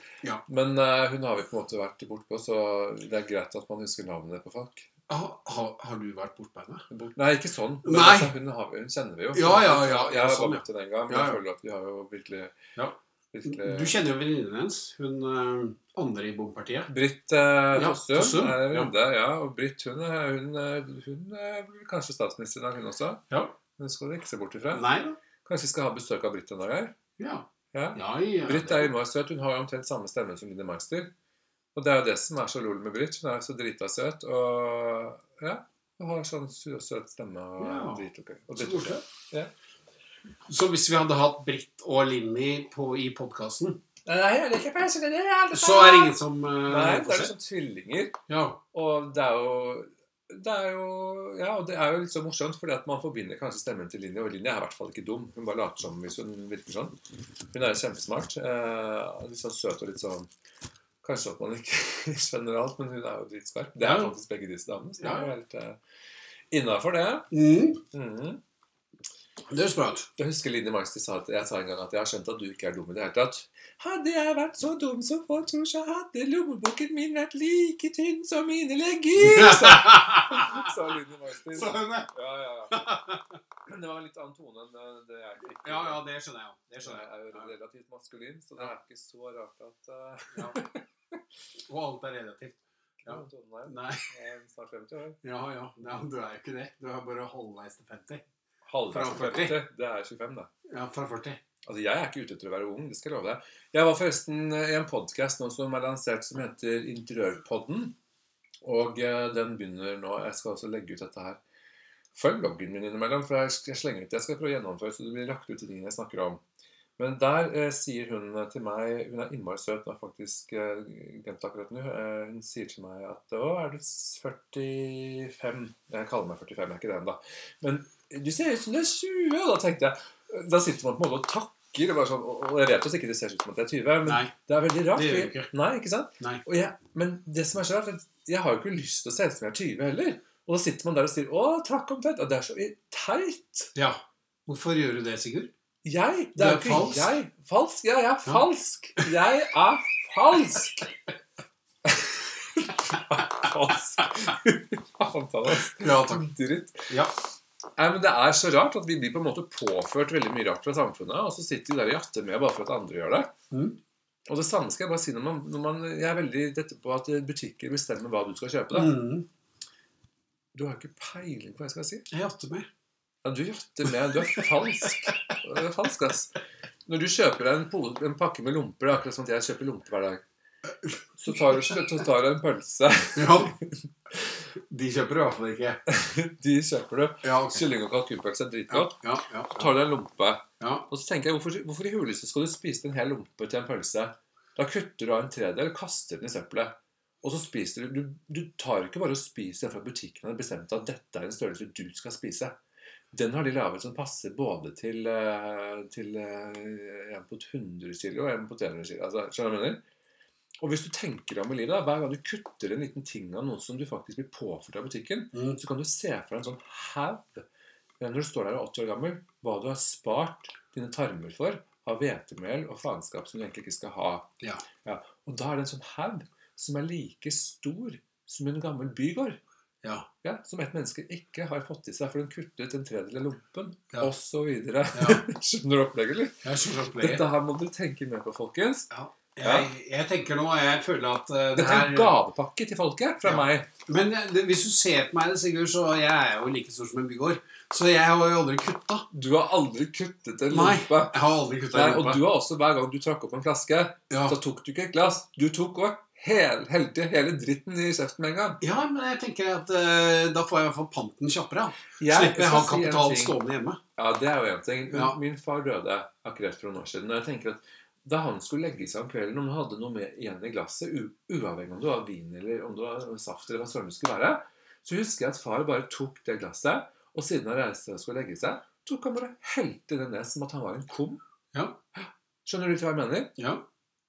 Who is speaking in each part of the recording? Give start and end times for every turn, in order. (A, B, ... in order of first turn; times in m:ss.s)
0:00.5-0:04.9 A
0:05.1-0:06.9 B
0:06.9-0:12.6 A
0:07.8-0:08.3 B
0:09.3-0:11.4 B
0:12.8-0:16.9 B
0:13.3-0:14.0 A
0:16.9-0:24.9 A
0:17.7-0:18.9 B
0:23.3-0:23.6 B
0:24.7-0:25.2 B
0:25.4-0:27.0 A
0:27.2-0:28.9 B
0:27.7-0:31.1 A
0:31.8-0:39.5 A
0:37.6-0:39.0 B
0:40.5-0:43.8 B
0:44.1-0:48.2 A
0:45.5-0:47.3 B
0:48.3-0:48.6 B
0:48.7-0:57.0 A
0:57.5-1:00.3 A
1:01.0-1:05.8 A
1:03.8-1:04.1 B
1:05.0-1:05.3 B
1:06.5-1:07.3 A
1:07.3-1:07.8 B
1:07.9-1:08.4 A
1:09.5-1:10.1 B
1:10.2-1:22.9 A
1:19.2-1:20.7 B
1:21.5-1:22.1 B
1:22.7-1:23.3 B
1:23.7-1:26.0 A
1:25.4-1:27.5 B
1:26.8-1:31.2 A
1:30.3-1:30.6 B
1:31.7-1:34.1 B
1:33.0-1:35.2 A
1:35.2-1:38.2 B
1:38.7-1:40.5 A
1:38.9-1:39.6 B
1:40.7-1:41.4 B
1:41.6-1:48.0 A
1:48.6-1:51.4 A
1:52.1-1:56.4 A
1:57.0-2:23.7 A
2:14.0-2:14.3 B
2:14.9-2:15.5 B
2:23.8-2:25.5 B
2:25.8-2:30.9 A
2:26.4-2:27.1 B
2:31.8-2:36.9 A
2:35.7-2:36.3 B
2:37.8-2:43.3 A
2:43.5-2:43.8 B
2:44.3-2:49.0 A
2:48.7-2:49.3 B
2:50.5-2:52.1 A
2:52.1-2:52.7 B
2:53.2-2:56.3 A
2:56.9-3:00.2 A
3:01.2-3:04.4 A
3:03.2-3:03.6 B
3:04.7-3:05.8 B
3:05.9-3:09.0 A
3:07.2-3:07.6 B
3:08.7-3:09.7 B
3:09.6-3:22.6 A
3:10.6-3:10.9 B
3:23.1-3:29.8 A
3:30.6-3:37.5 A
3:35.3-3:35.6 B
3:38.0-3:44.3 A
3:44.8-3:49.4 A
3:50.2-3:56.4 A
3:54.9-3:55.3 B
3:56.4-3:57.2 B
3:57.0-3:58.9 A
3:58.9-4:02.1 B
3:59.4-3:59.7 A
4:01.6-4:03.7 A
4:03.2-4:09.1 B
4:09.1-4:11.2 A
4:10.5-4:12.2 B
4:11.7-4:18.6 A
4:14.1-4:14.4 B
4:18.6-4:23.8 B
4:22.0-4:23.4 A
4:24.0-4:41.2 A
4:24.9-4:25.2 B
4:42.0-4:43.3 A
4:43.4-4:43.6 B